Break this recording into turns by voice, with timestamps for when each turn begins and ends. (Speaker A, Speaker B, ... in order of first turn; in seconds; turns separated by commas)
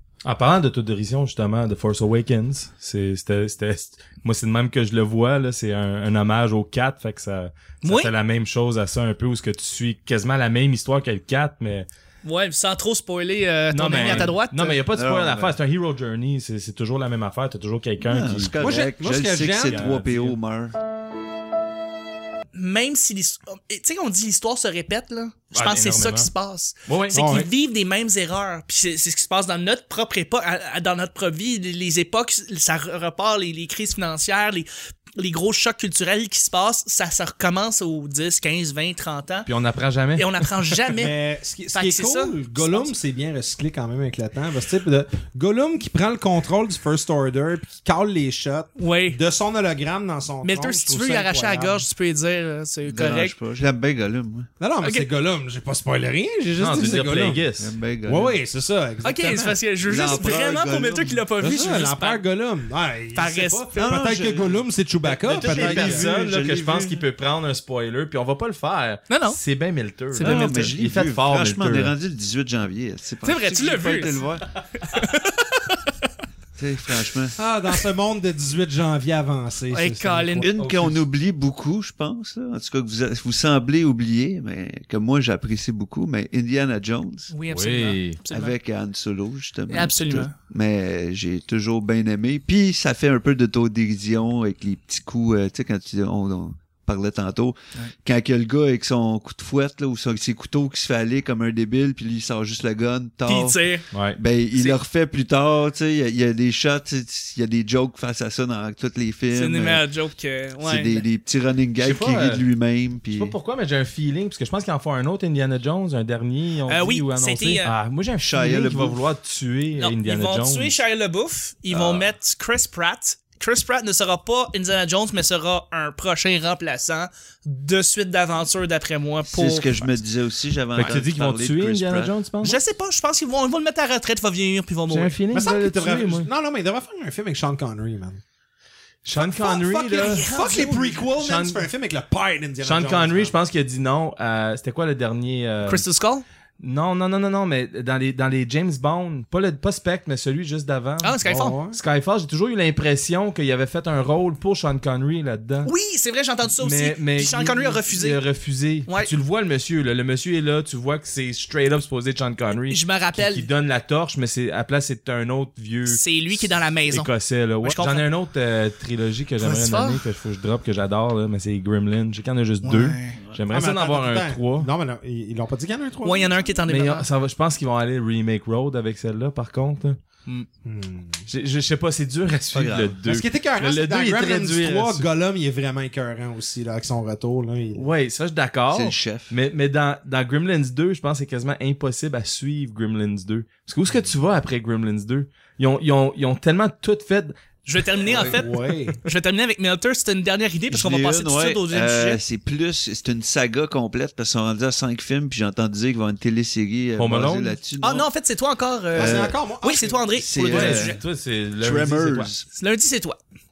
Speaker A: 0.2-11.9, Speaker B: 7.8-8.1, Speaker B: 12.2-14.8, Speaker A: 13.7-18.9, Speaker C: 14.9-15.6, Speaker C: 18.0-20.8, Speaker D: 18.6-19.9, Speaker A: 19.6-20.4, Speaker B: 22.5-39.5, Speaker A: 25.5-26.3, Speaker A: 26.9-27.4, Speaker D: 27.1-27.5, Speaker A: 39.5-40.5, Speaker B: 40.2-41.1, Speaker D: 40.9-51.9, Speaker B: 41.7-42.9, Speaker B: 48.8-49.2, Speaker B: 50.4-53.4, Speaker C: 52.9-54.5, Speaker D: 54.6-57.5, Speaker B: 54.8-55.1, Speaker A: 56.6-57.7, Speaker C: 57.6-58.4, Speaker D: 58.1-59.6, Speaker B: 59.0-62.2, Speaker C: 59.8-61.2, Speaker D: 61.4-66.1, Speaker B: 63.1-63.9, Speaker C: 63.8-67.0, Speaker A: 65.2-71.9, Speaker B: 69.1-69.4, Speaker B: 70.1-70.8, Speaker C: 70.2-74.5, Speaker B: 73.2-75.9, Speaker C: 76.6-77.4, Speaker D: 77.4-80.5, Speaker B: 79.7-80.5, Speaker C: 80.4-87.3, Speaker A: 80.6-81.0, Speaker B: 87.3-88.6, Speaker A: 87.5-88.2, Speaker C: 88.3-103.6, Speaker B: 89.7-90.3, Speaker B: 103.3-103.9, Speaker A: 103.9-104.2, Speaker C: 104.2-109.8, Speaker B: 109.3-111.0, Speaker C: 110.6-113.4, Speaker A: 111.8-112.4, Speaker A: 113.1-120.8, Speaker B: 116.7-117.7, Speaker C: 118.2-119.0, Speaker B: 119.8-130.0, Speaker C: 121.7-122.1, Speaker C: 129.3-132.1, Speaker A: 130.8-132.6, Speaker B: 132.4-135.2, Speaker A: 134.9-136.3, Speaker D: 135.3-138.2, Speaker A: 139.1-140.3, Speaker D: 139.1-143.3, Speaker B: 139.9-141.1, Speaker A: 141.2-141.7, Speaker A: 142.6-145.8, Speaker B: 145.6-146.2, Speaker A: 146.6-155.7, Speaker B: 151.0-151.6, Speaker D: 151.2-151.8, Speaker B: 155.7-158.2, Speaker A: 156.4-174.7, Speaker B: 158.9-159.1, Speaker B: 162.7-163.5, Speaker B: 165.9-167.1, Speaker B: 167.6-168.1, Speaker B: 169.4-170.0, Speaker B: 172.6-173.2, Speaker D: 173.5-176.4, Speaker B: 176.0-177.1, Speaker A: 176.7-180.0, Speaker D: 180.7-181.2, Speaker A: 181.3-185.1, Speaker C: 182.5-183.0, Speaker D: 183.0-187.9, Speaker A: 187.8-197.3, Speaker C: 188.7-189.3, Speaker B: 197.7-202.2, Speaker D: 198.1-199.0, Speaker C: 200.7-208.1, Speaker A: 207.0-207.6, Speaker B: 207.8-211.0, Speaker C: 208.9-209.4, Speaker D: 208.9-210.1, Speaker C: 210.2-211.0, Speaker A: 210.5-212.3, Speaker C: 211.6-212.5, Speaker B: 212.5-213.2